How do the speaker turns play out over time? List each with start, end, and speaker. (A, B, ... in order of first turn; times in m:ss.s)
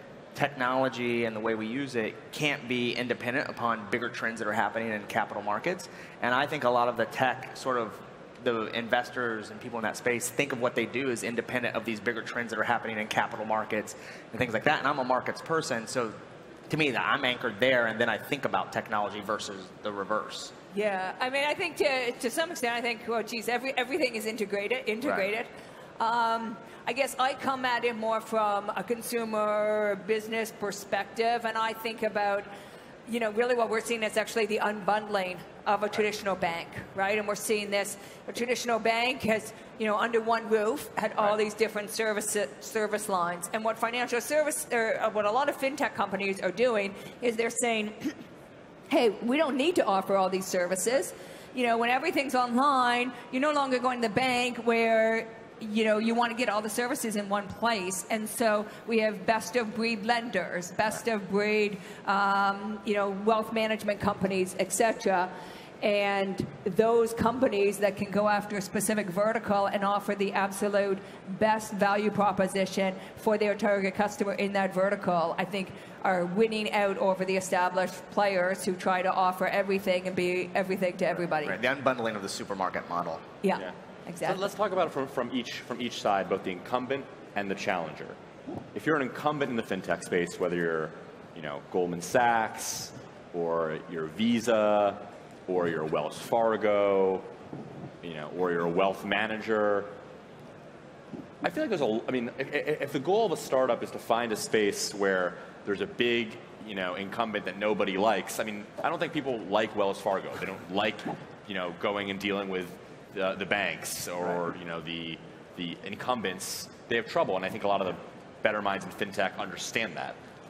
0:00.3-0:16.1 A
0:16.7-0:20.5 A
0:20.7-0:32.5 B
0:25.0-0:25.3 A
0:33.0-0:48.1 B
0:48.9-1:21.6 B
1:21.4-1:23.2 A
1:23.4-1:24.5 B
1:24.2-1:28.2 C
1:28.7-1:37.2 C
1:38.0-1:39.9 C
1:41.4-2:00.2 C